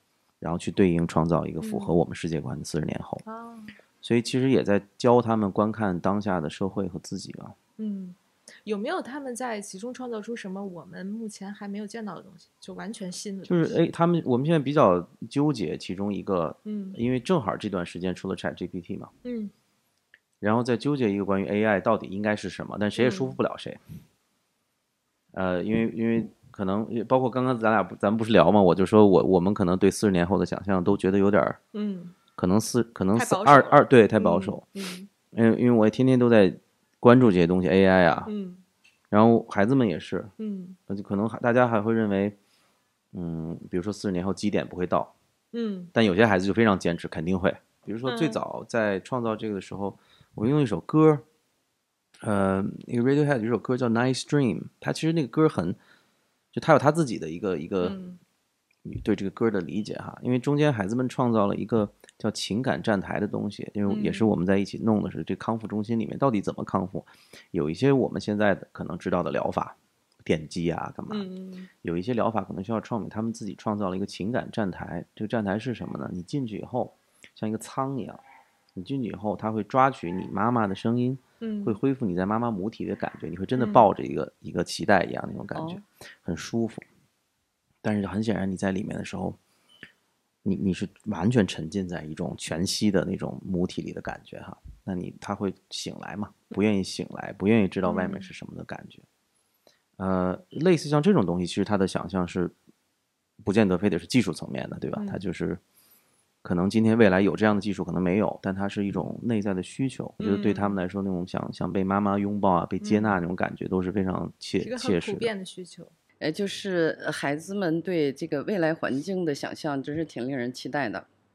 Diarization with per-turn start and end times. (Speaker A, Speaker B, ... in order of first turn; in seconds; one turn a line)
Speaker A: 0.4-3.2
Speaker B: 1.6-1.9
Speaker B: 3.2-3.7
Speaker A: 4.0-7.5
Speaker B: 7.8-13.8
Speaker A: 13.4-19.1
Speaker B: 16.6-17.0
Speaker B: 19.2-19.5
Speaker A: 20.4-23.8
Speaker B: 23.0-23.4
Speaker A: 25.3-31.6
Speaker B: 31.7-32.1
Speaker A: 32.4-34.6
Speaker B: 33.1-35.1
Speaker A: 35.3-38.3
Speaker B: 38.2-38.6
Speaker A: 39.1-40.3
Speaker B: 40.4-40.8
Speaker A: 40.9-42.4
Speaker A: 43.1-45.1
Speaker B: 45.5-45.9
Speaker A: 45.9-51.2
Speaker B: 48.0-48.4
Speaker A: 52.2-55.8
Speaker A: 56.5-58.0
Speaker B: 57.8-58.2
Speaker A: 58.8-71.3
Speaker B: 63.9-64.3
Speaker B: 71.1-71.7
Speaker A: 71.8-78.2
Speaker A: 78.7-86.8
Speaker B: 81.4-81.8
Speaker C: 85.5-85.8
Speaker A: 87.8-89.4
Speaker A: 90.4-99.0
Speaker B: 97.8-98.3
Speaker A: 100.0-102.5
Speaker A: 103.4-105.6
Speaker B: 105.0-105.2
Speaker A: 106.4-115.3
Speaker B: 110.2-110.8
Speaker B: 112.8-113.2
Speaker B: 114.6-115.9
Speaker C: 116.2-121.0